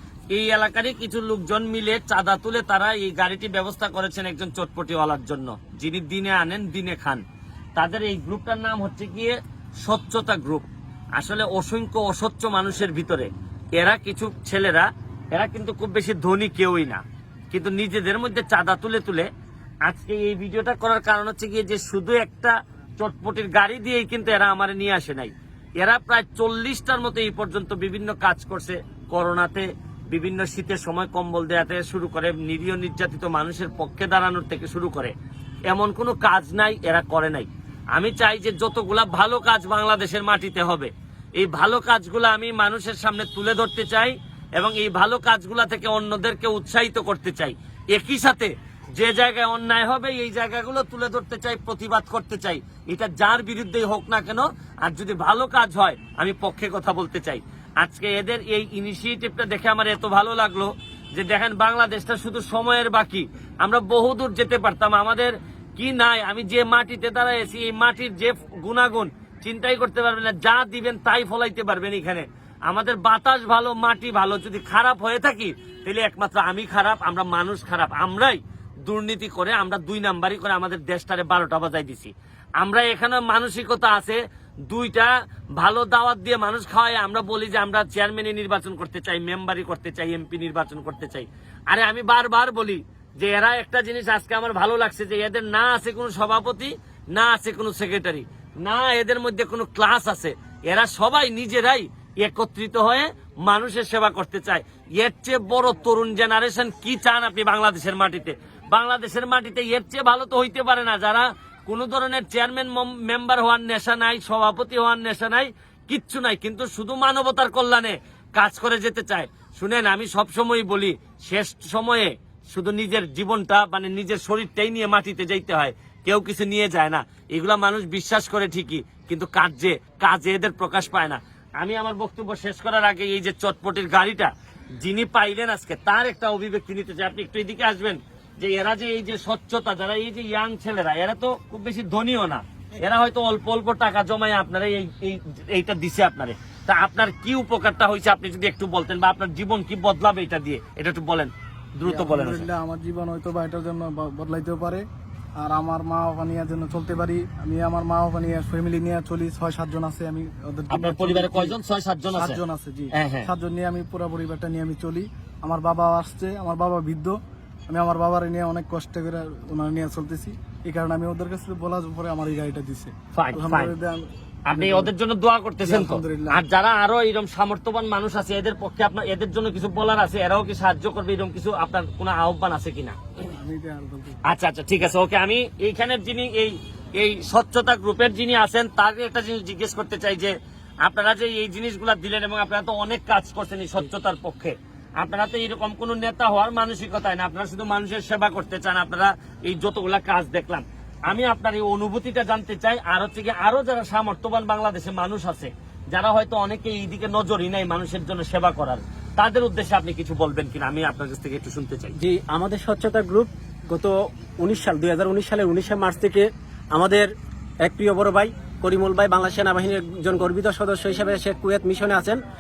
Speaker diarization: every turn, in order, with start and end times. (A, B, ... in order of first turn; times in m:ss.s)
0:00.3-0:07.2 A
0:07.8-0:19.3 A
0:19.9-0:35.1 A
0:35.7-2:32.5 A
2:31.8-2:34.8 B
2:35.4-2:41.6 B
2:40.7-2:42.4 A
2:42.1-2:47.2 B
2:42.9-2:43.3 A
2:47.7-2:54.9 B
2:53.1-2:53.7 A
2:54.5-3:03.0 A
2:55.6-2:56.4 B
3:03.3-3:04.2 B
3:04.2-3:32.0 A
3:32.0-3:37.1 C
3:37.6-3:42.2 C